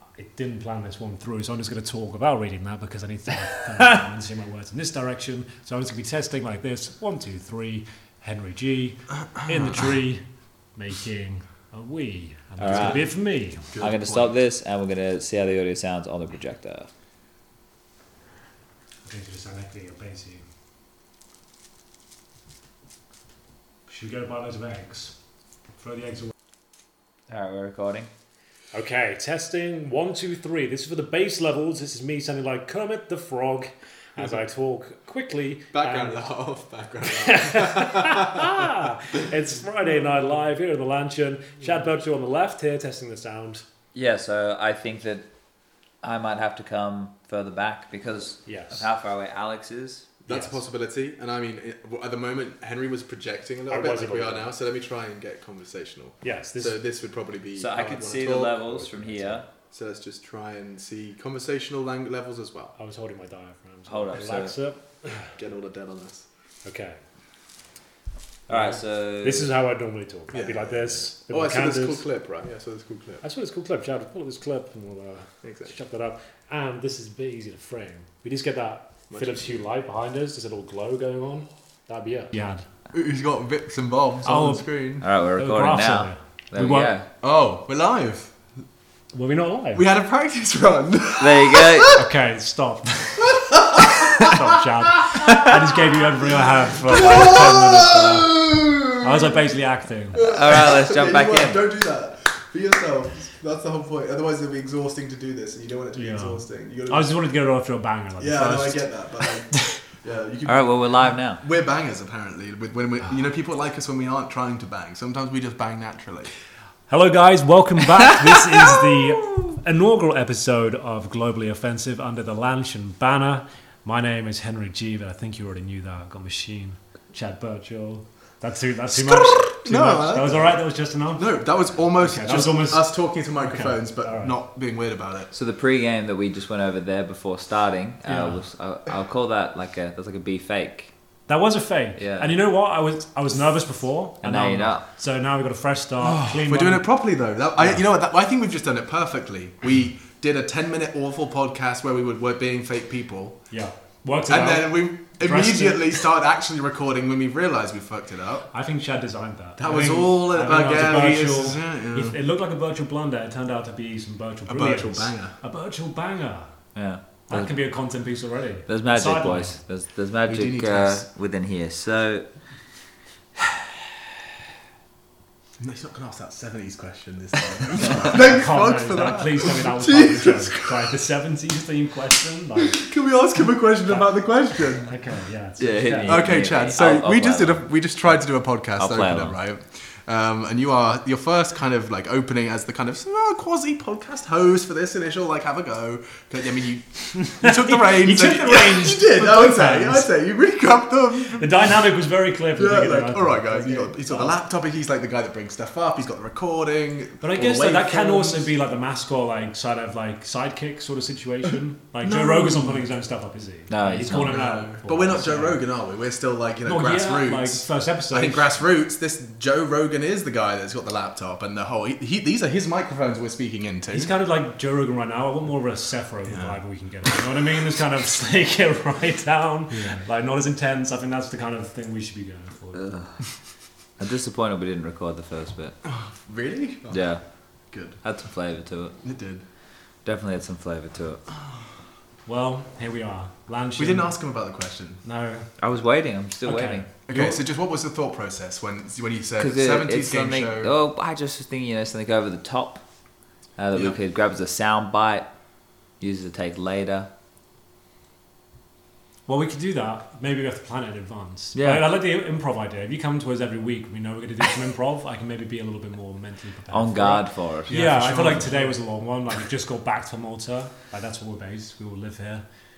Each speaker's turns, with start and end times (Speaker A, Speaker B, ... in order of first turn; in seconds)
Speaker A: 0.2-10.2, 10.8-13.7, 19.1-20.4, 23.9-25.1, 25.8-26.3, 28.7-36.2, 37.0-43.6, 48.5-48.8, 50.3-50.6, 53.7-54.4, 56.2-56.7, 62.7-65.3, 66.6-67.0, 68.5-72.0, 73.2-82.7, 84.2-84.7, 85.4-86.9, 89.1-89.8, 91.9-93.4, 94.1-98.4, 99.0-100.2, 105.9-108.9, 109.5-109.8, 116.9-131.3, 132.0-132.9, 133.4-134.3, 138.1-138.4, 141.3-146.8, 153.5-156.0, 158.5-166.5, 167.3-169.6, 178.0-182.9, 183.8-186.3, 197.2-200.1, 201.4-204.3, 207.2-215.6, 216.7-218.5, 223.9-232.8, 242.2-244.1, 245.0-245.5, 246.4-247.4, 259.3-272.4
Speaker B: 9.4-9.8, 13.7-14.4, 35.7-38.7, 50.2-62.7, 65.3-66.3, 70.3-73.2, 75.4-75.7, 79.1-79.4, 82.9-85.0, 87.2-88.3, 89.7-92.0, 93.2-94.5, 96.8-99.3, 100.1-107.1, 108.2-116.3, 129.0-130.6, 131.1-135.3, 146.0-153.4, 154.3-158.5, 159.6-162.2, 164.5-165.3, 170.3-171.1, 175.6-180.9, 182.6-184.9, 186.0-201.7, 202.6-208.5, 212.0-212.8, 214.1-224.1, 226.3-227.2, 229.7-230.0, 235.8-237.0, 237.7-238.0, 239.0-239.4, 241.3-241.6, 243.8-245.0, 247.1-250.7, 267.6-268.8
Speaker C: 12.6-13.0, 13.8-16.9, 27.3-28.1, 43.9-45.2, 46.0-50.1, 57.6-59.4, 63.9-64.5, 68.5-69.5, 85.0-87.0, 91.2-91.9, 100.2-101.6, 110.5-111.4, 135.3-140.9, 142.0-142.3, 144.2-144.8, 166.7-167.6, 168.7-172.2, 185.6-187.7, 188.8-189.3, 213.7-214.4, 232.7-233.2, 234.0-235.7, 236.9-237.2, 238.0-238.9, 240.0-241.2, 245.6-246.9, 249.4-252.8, 253.6-255.3, 256.0-257.1, 261.5-261.9, 266.7-267.7